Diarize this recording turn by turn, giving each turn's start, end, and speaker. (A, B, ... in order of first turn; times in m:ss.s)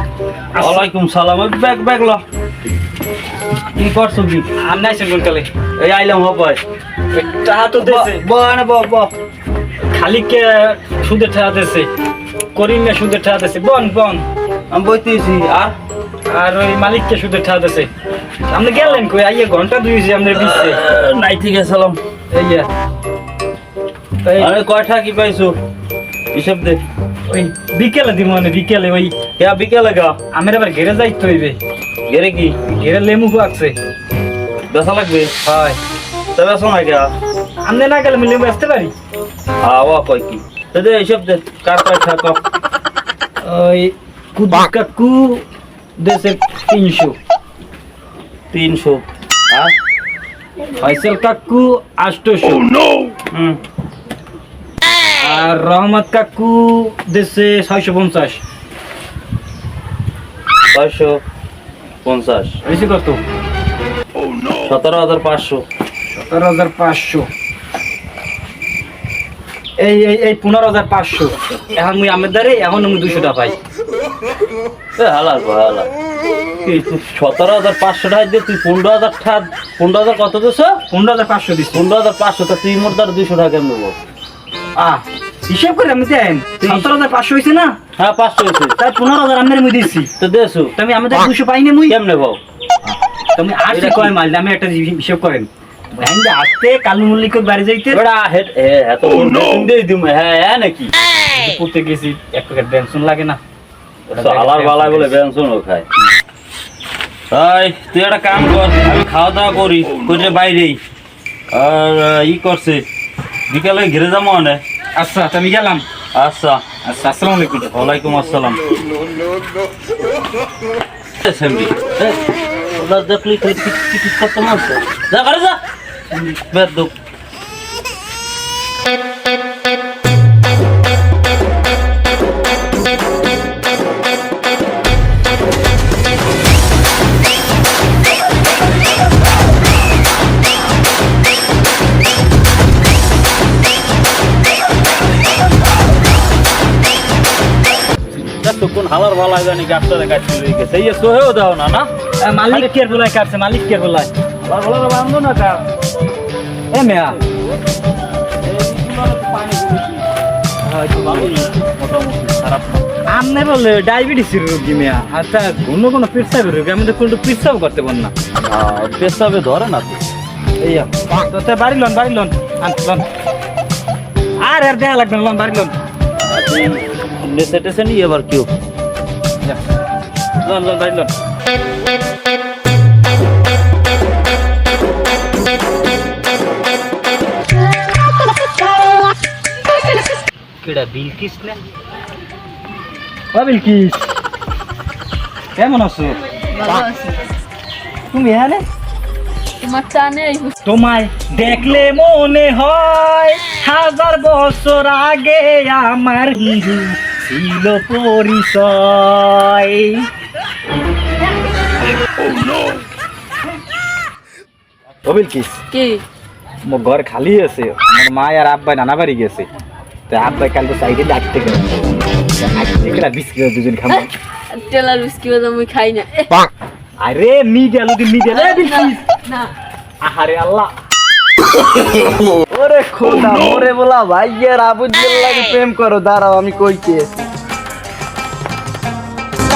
0:00.6-0:00.8 A
0:00.6-0:02.2 B
0:03.7-0:04.5 B
0:04.6-0:05.5 A
0:05.8-0:06.6 B
0:07.1-0:08.2 A
0:07.7-0:09.1 B
0:09.9-0:11.9 A
0:12.5-0:14.2 A
0:14.7-0:15.8 B
0:16.3-0:17.9 A
0:18.5-0:20.8 A
0:18.7-0:19.1 B
0:20.3-0:22.0 B
0:22.3-0:22.7 A
0:24.2-0:24.6 A
0:24.4-0:25.6 B
0:26.3-0:26.8 B
0:27.3-0:29.2 A
0:29.4-0:30.2 B
0:30.3-0:31.6 A
0:32.1-0:32.6 B
0:32.7-0:33.8 A
0:34.6-0:35.3 B
0:35.4-0:35.8 A
0:36.3-0:37.1 B
0:37.7-0:38.9 A
0:39.6-0:42.4 B
0:43.4-0:45.4 A
0:46.0-0:47.2 A
0:48.5-0:49.7 B
0:50.8-0:52.7 A
0:53.3-0:53.6 B
0:55.2-0:58.4 A
1:00.7-1:01.2 B
1:02.0-1:02.6 B
1:02.6-1:03.2 A
1:04.6-1:05.6 B
1:06.1-1:07.3 A
1:09.8-1:13.6 A
1:15.0-1:15.9 B
1:16.6-1:20.8 B
1:20.9-1:21.8 A
1:21.7-1:24.0 B
1:24.8-1:27.7 A
1:26.6-1:27.0 B
1:28.0-1:28.8 B
1:28.8-1:30.1 A
1:30.2-1:30.8 B
1:30.8-1:32.0 A
1:31.9-1:32.4 B
1:32.8-1:38.0 A
1:33.7-1:34.2 B
1:37.9-1:40.9 B
1:41.4-1:43.4 A
1:44.1-1:45.9 B
1:44.1-1:45.2 A
1:47.3-1:50.8 B
1:51.5-1:52.8 B
1:53.5-1:54.6 B
1:55.0-1:55.8 A
1:56.1-1:56.6 B
1:56.8-1:57.8 A
1:57.7-1:58.7 B
2:01.2-2:05.6 B
2:06.1-2:06.9 B
2:28.4-2:31.9 B
2:32.2-2:34.1 A
2:34.4-2:35.6 B
2:36.7-2:37.2 A
2:38.4-2:40.1 B
2:40.7-2:41.3 A
2:40.9-2:42.8 B
2:43.1-2:48.1 A
2:48.4-2:50.0 B
2:50.6-2:53.1 A
2:54.4-2:55.8 A
2:56.2-2:58.5 B
3:00.4-3:01.1 A
3:10.6-3:11.6 A
3:13.3-3:14.1 A
3:15.6-3:16.2 A
3:16.5-3:17.2 C
3:18.1-3:18.6 A
3:19.6-3:20.6 C
3:20.6-3:30.1 A
3:35.0-3:35.6 A
3:35.7-3:36.0 C
3:36.7-3:39.5 A
3:40.1-3:44.1 A
3:43.9-3:46.5 C
3:47.0-3:49.0 A
3:48.3-3:49.5 C
3:50.0-3:50.7 A
3:52.5-3:57.1 D